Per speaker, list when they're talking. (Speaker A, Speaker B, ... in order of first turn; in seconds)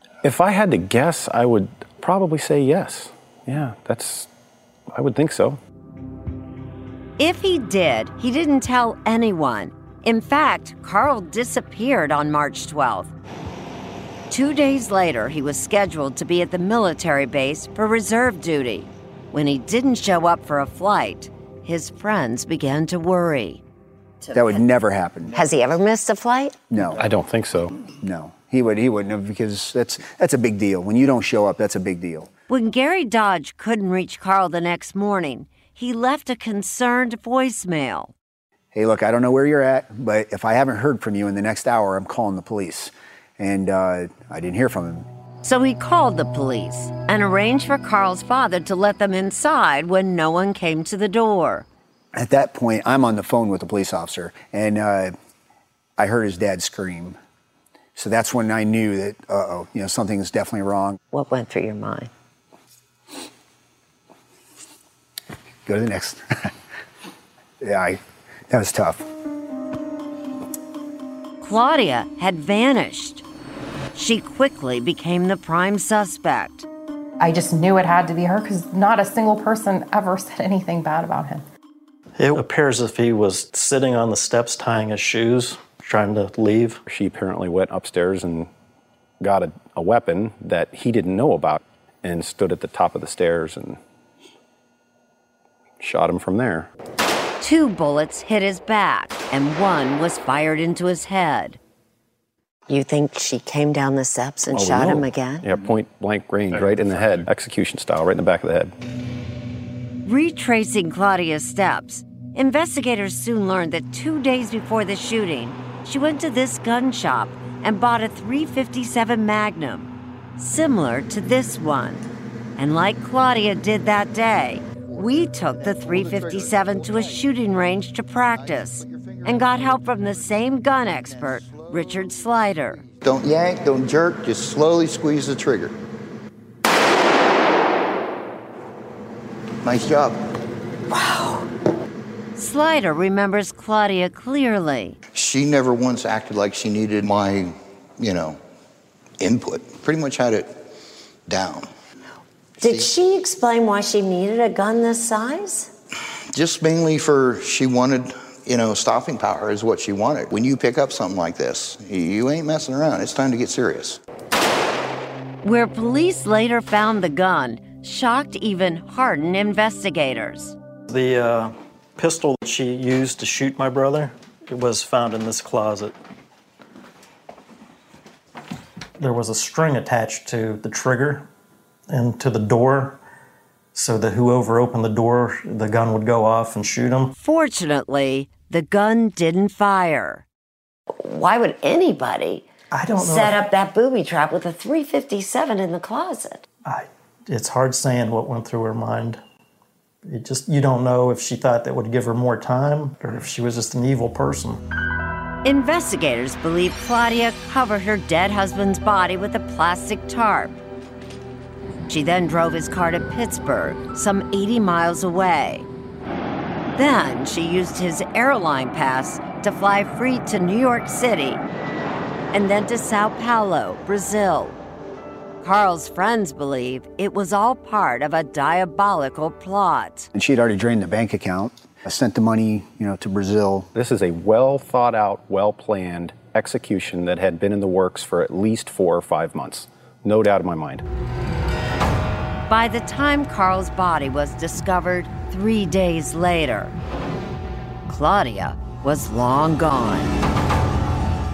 Speaker A: 0.2-4.3, 4.9-5.6, 26.9-27.7, 86.9-88.5, 89.2-93.8, 95.8-96.7, 104.5-108.7, 233.7-240.8
Speaker B: 7.2-13.1, 14.3-23.6, 32.5-38.1, 45.4-51.6, 71.4-73.2, 74.0-76.7, 97.4-101.6, 110.0-122.0, 122.6-132.8, 142.4-145.0, 165.4-170.6, 187.2-190.2, 205.4-210.6, 211.9-215.7, 216.8-221.4, 222.3-224.6, 225.4-230.1, 242.5-246.7, 247.9-250.1
Speaker C: 24.2-24.6, 25.3-26.6, 61.1-62.1, 102.7-105.5, 152.6-155.7, 191.0-196.4
Speaker D: 24.3-25.4, 26.7-27.0, 28.0-32.3, 38.7-45.1, 52.1-55.1, 56.0-57.2, 58.0-61.0, 65.7-66.5, 67.6-69.0, 230.1-233.7
Speaker E: 77.2-81.4
Speaker F: 82.2-86.8, 170.9-175.9, 179.0-181.3, 181.9-183.0, 183.8-187.1, 192.7-193.4, 196.7-199.2, 200.1-204.6
Speaker G: 125.0-127.3, 128.3-130.2, 130.9-131.9, 132.8-135.8, 139.6-140.2, 145.1-148.4, 149.2-150.6, 151.3-151.7, 152.6-152.9, 156.3-164.0